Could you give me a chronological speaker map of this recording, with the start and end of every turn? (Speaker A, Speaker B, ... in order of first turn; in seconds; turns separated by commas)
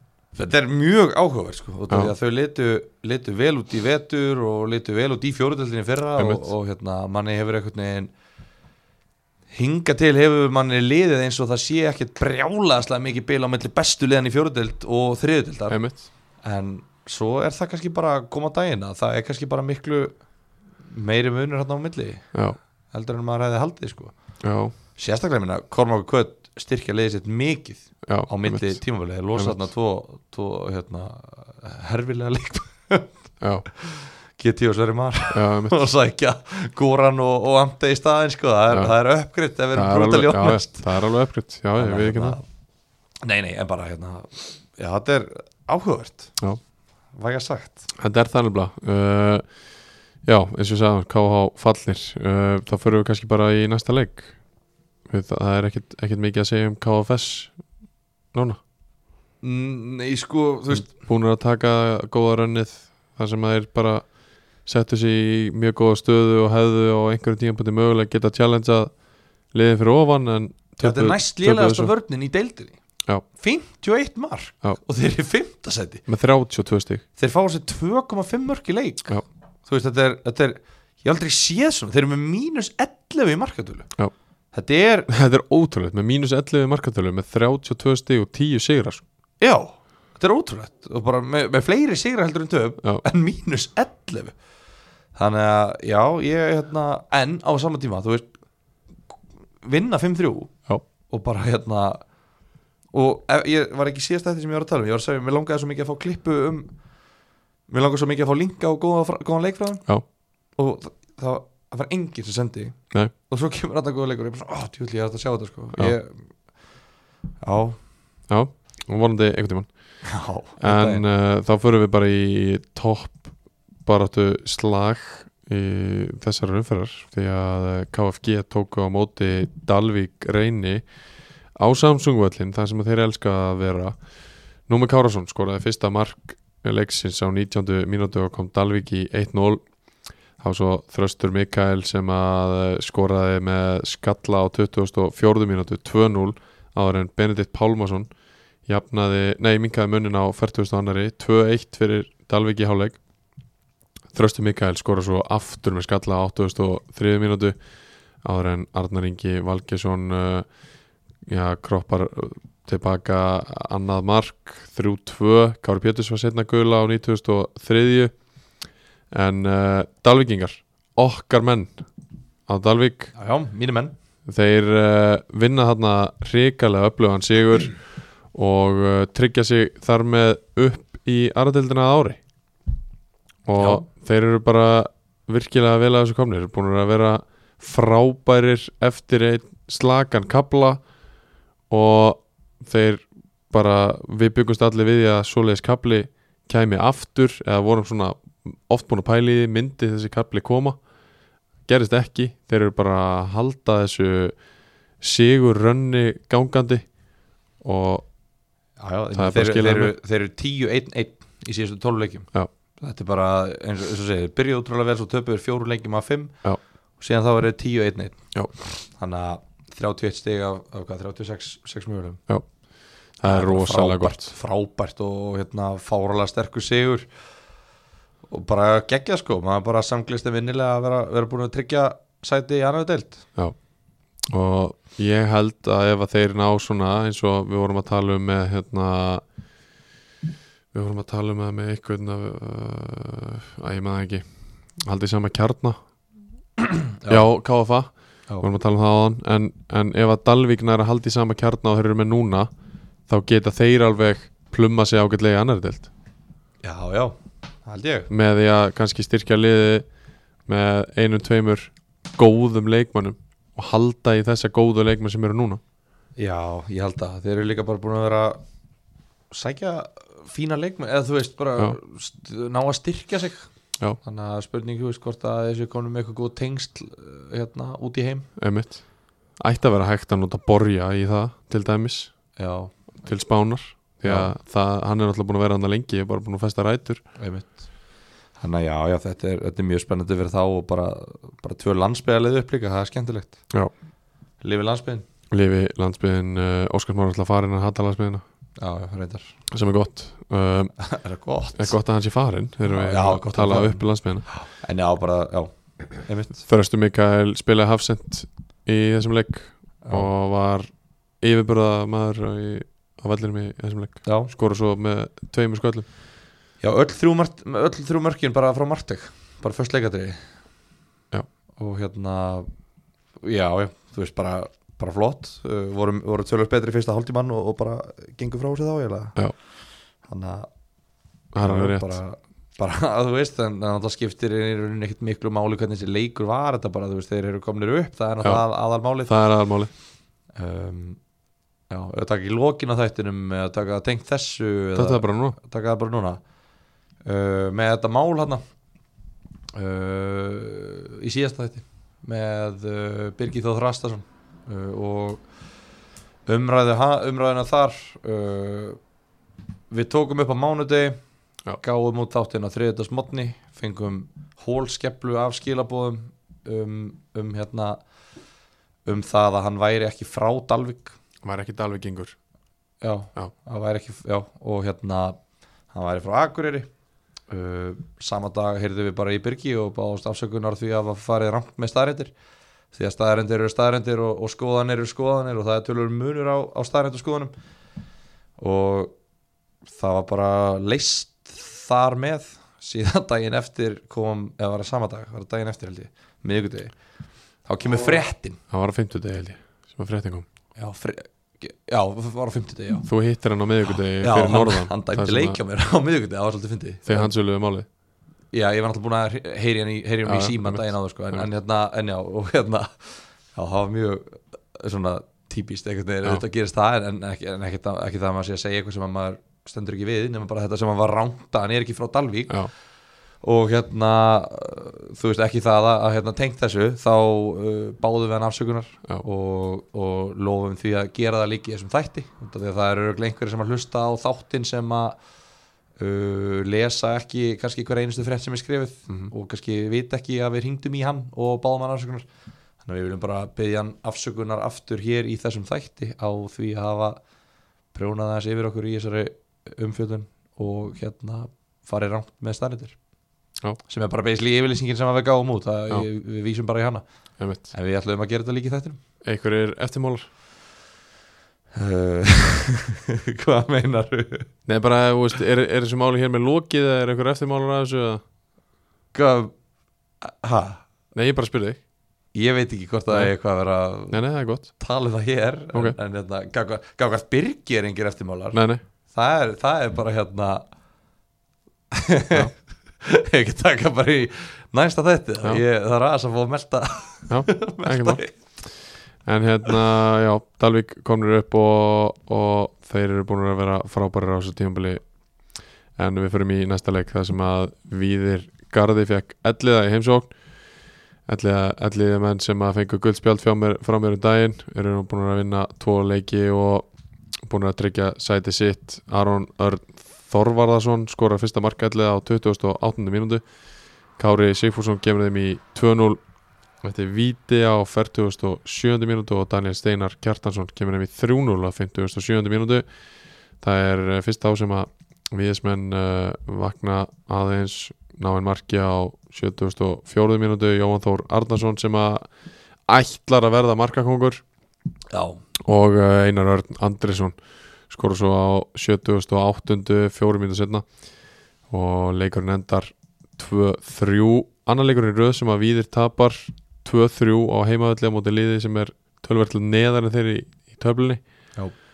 Speaker A: 0.3-8.1, Speaker B: 6.2-6.5, Speaker A: 9.5-15.8, Speaker B: 15.7-16.1, Speaker A: 16.4-20.2, Speaker A: 20.9-22.4, Speaker A: 22.9-24.1, Speaker B: 24.4-24.7, Speaker A: 24.9-33.1, Speaker B: 28.1-28.8, Speaker B: 29.3-29.6, Speaker B: 33.4-33.7, Speaker A: 33.8-40.9, Speaker B: 35.3-35.9, Speaker B: 39.7-42.4, Speaker A: 41.8-42.4, Speaker A: 43.2-46.4, Speaker A: 47.1-47.9, Speaker B: 48.0-49.5, Speaker B: 50.2-54.4, Speaker B: 55.1-57.6, Speaker B: 58.3-58.6, Speaker A: 59.4-61.0, Speaker B: 60.7-68.9, Speaker B: 69.5-71.9, Speaker A: 70.8-72.8, Speaker A: 73.3-76.0, Speaker B: 76.1-77.0, Speaker A: 77.2-83.9, Speaker A: 84.5-85.1, Speaker B: 85.1-89.0, Speaker A: 89.4-94.3, Speaker A: 95.1-98.3, Speaker A: 99.6-102.0, Speaker A: 102.9-106.7, Speaker A: 107.7-109.9, Speaker A: 110.5-116.2, Speaker A: 117.4-117.8, Speaker B: 118.3-119.7, Speaker A: 120.0-121.0, Speaker B: 120.6-123.3, Speaker B: 123.8-130.8, Speaker B: 131.5-134.0, Speaker B: 134.7-139.6, Speaker B: 140.4-148.1, Speaker B: 148.6-153.0, Speaker B: 154.1-157.6, Speaker B: 158.2-160.5, Speaker B: 161.2-168.1, Speaker B: 169.1-171.8, Speaker B: 172.5-173.1, Speaker A: 173.1-173.9, Speaker B: 174.2-182.2, Speaker B: 183.4-190.8, Speaker A: 183.6-183.8, Speaker B: 191.7-200.8, Speaker B: 201.7-204.3, Speaker B: 205.0-206.9, Speaker B: 207.6-208.1, Speaker A: 208.8-212.3, Speaker B: 209.1-209.9, Speaker A: 212.8-216.3, Speaker A: 217.0-218.2, Speaker A: 219.0-222.2, Speaker B: 223.2-224.3, Speaker A: 223.2-227.1, Speaker A: 228.3-233.2, Speaker B: 234.3-239.2, Speaker B: 240.7-245.8, Speaker A: 247.0-247.2, Speaker B: 247.1-252.5, Speaker B: 253.1-255.9, Speaker A: 256.6-258.1, Speaker B: 258.1-259.9, Speaker B: 260.5-265.6, Speaker A: 266.2-268.4, Speaker A: 269.3-273.5, Speaker A: 274.0-278.3, Speaker B: 278.4-278.8, Speaker B: 279.4-282.1, Speaker A: 282.4-282.7, Speaker B: 283.0-287.0, Speaker A: 284.0-284.3, Speaker A: 287.2-287.7, Speaker A: 288.4-293.4, Speaker A: 294.4-295.0, Speaker B: 295.3-298.2, Speaker A: 298.6-299.4, Speaker B: 299.5-300.7, Speaker A: 300.8-301.8, Speaker B: 301.6-304.2, Speaker A: 302.7-306.4, Speaker B: 306.5-315.9, Speaker A: 309.8-310.1, Speaker A: 314.0-314.3, Speaker A: 316.6-320.2, Speaker A: 321.6-322.5, Speaker A: 323.2-329.2, Speaker A: 330.1-330.5, Speaker B: 331.3-332.0, Speaker A: 331.4-339.1, Speaker B: 339.1-339.7, Speaker A: 340.3-341.0, Speaker A: 341.7-346.2, Speaker B: 344.7-345.4, Speaker A: 347.0-348.4, Speaker A: 349.5-355.2, Speaker A: 356.2-358.8, Speaker A: 359.7-361.0, Speaker A: 361.6-367.8, Speaker A: 368.9-370.9, Speaker B: 371.2-372.1, Speaker A: 372.8-375.2, Speaker A: 375.7-376.7, Speaker A: 377.3-382.1, Speaker A: 382.7-387.3, Speaker A: 388.4-388.9, Speaker A: 389.6-396.7, Speaker A: 397.4-398.4, Speaker B: 398.5-400.2, Speaker A: 400.6-402.9, Speaker B: 402.8-405.4, Speaker A: 404.0-407.1, Speaker B: 406.9-407.6, Speaker A: 408.3-422.5, Speaker B: 410.1-411.3, Speaker A: 423.2-435.0, Speaker A: 435.8-442.1, Speaker A: 442.6-447.0, Speaker A: 447.7-452.8, Speaker A: 453.7-456.8, Speaker B: 457.2-457.5, Speaker A: 457.4-458.8, Speaker B: 459.0-460.1, Speaker A: 461.5-464.3, Speaker B: 464.5-468.0, Speaker A: 468.9-469.3, Speaker A: 470.0-470.6, Speaker B: 470.9-471.6, Speaker A: 472.1-474.0, Speaker B: 473.9-474.5, Speaker A: 474.6-480.4, Speaker B: 478.3-478.6, Speaker A: 481.7-488.1, Speaker B: 487.1-488.5, Speaker B: 489.0-494.8, Speaker B: 495.8-500.1, Speaker B: 501.1-506.7, Speaker B: 507.2-513.2, Speaker B: 514.0-516.0, Speaker B: 516.6-522.6, Speaker B: 523.4-532.0, Speaker B: 532.7-534.2, Speaker A: 534.9-535.2, Speaker B: 535.4-537.2, Speaker B: 537.7-540.7, Speaker B: 541.5-551.0